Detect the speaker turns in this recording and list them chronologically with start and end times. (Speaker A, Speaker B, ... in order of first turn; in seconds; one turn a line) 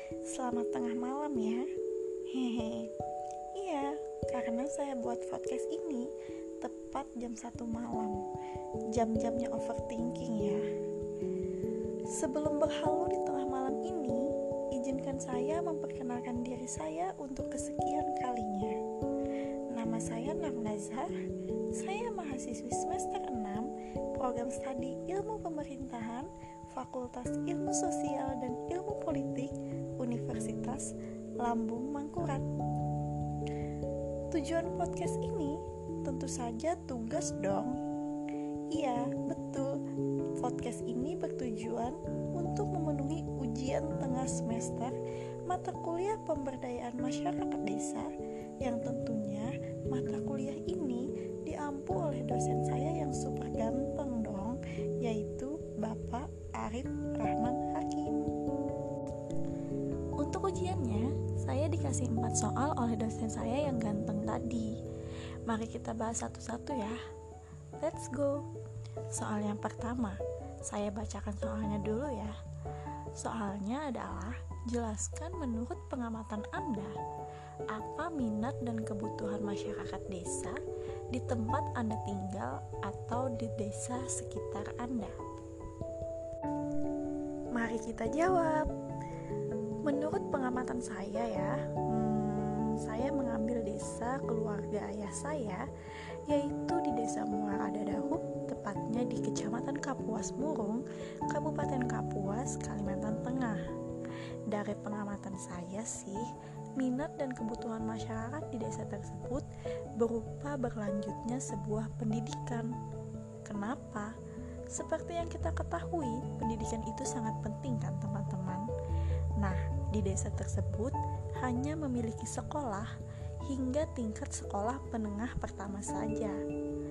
Speaker A: 0.2-1.6
Speaker A: 2.3-2.9
Speaker A: 3.5-8.2
Speaker A: 8.9-10.6
Speaker A: 12.1-18.8
Speaker A: 19.7-21.1
Speaker A: 21.7-32.4
Speaker A: 34.3-37.8
Speaker A: 38.7-39.8
Speaker A: 40.4-45.0
Speaker A: 45.5-48.1
Speaker A: 48.6-58.2
Speaker A: 60.2-64.7
Speaker A: 65.5-67.0
Speaker A: 67.8-68.4
Speaker A: 69.1-72.3
Speaker A: 73.2-77.0
Speaker A: 77.7-80.6
Speaker A: 81.1-85.2
Speaker A: 87.5-88.7
Speaker A: 89.8-95.7
Speaker A: 96.2-103.6
Speaker A: 104.5-106.2
Speaker A: 106.8-112.7
Speaker A: 113.4-114.1
Speaker A: 114.7-118.7
Speaker A: 119.4-122.9
Speaker A: 123.5-126.4